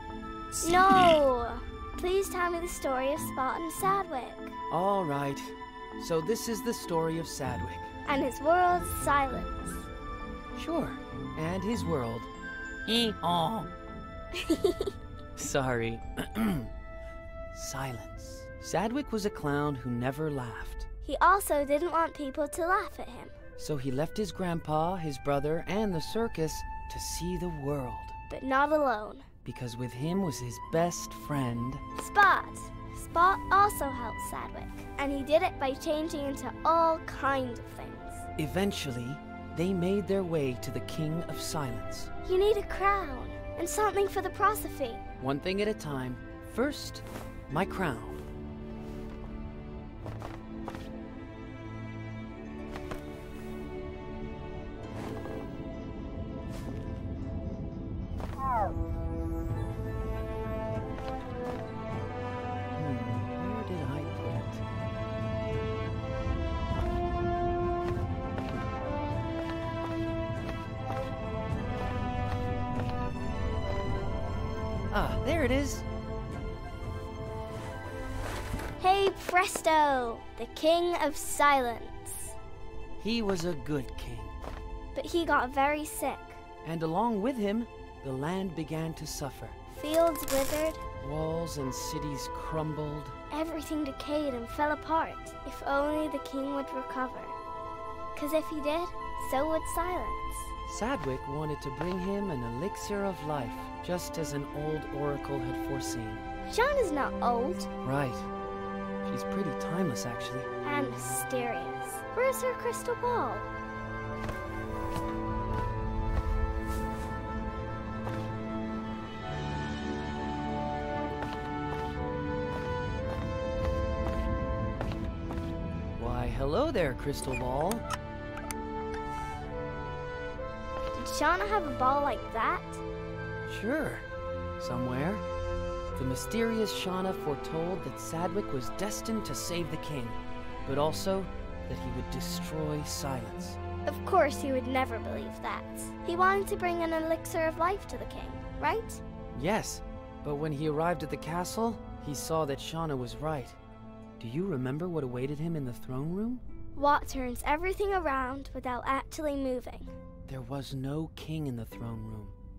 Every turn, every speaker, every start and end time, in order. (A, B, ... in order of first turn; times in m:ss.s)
0:00.6-0:04.5 A
0:04.7-0:07.9 B
0:08.0-0:09.9 A
0:10.5-0:12.3 B
0:12.8-0:13.7 B
0:14.3-0:14.9 A
0:15.4-0:16.7 B
0:17.5-0:20.9 B
0:21.0-0:23.3 A
0:23.6-0:28.1 B
0:28.3-0:29.2 A
0:29.4-0:31.8 B
0:31.9-0:38.3 A
0:38.4-0:42.1 B
0:42.2-0:45.0 A
0:45.2-0:48.2 B
1:02.8-1:04.6 B
1:14.9-1:15.8 B
1:18.8-1:22.4 A
1:23.0-1:24.3 B
1:24.9-1:26.4 A
1:26.6-1:29.6 B
1:29.7-1:30.8 A
1:31.0-1:33.1 B
1:33.3-1:37.4 A
1:38.1-1:40.5 A
1:40.7-1:46.2 B
1:46.4-1:47.7 A
1:47.8-1:48.3 B
1:49.0-1:50.5 B
1:50.6-1:53.5 A
2:06.0-2:07.8 B
2:10.9-2:12.8 A
2:13.4-2:14.0 B
2:14.6-2:15.2 B
2:15.9-2:23.6 B
2:23.8-2:29.0 A
2:29.3-2:33.6 B
2:34.2-2:36.4 B
2:36.8-2:39.9 A
2:40.3-2:42.4 B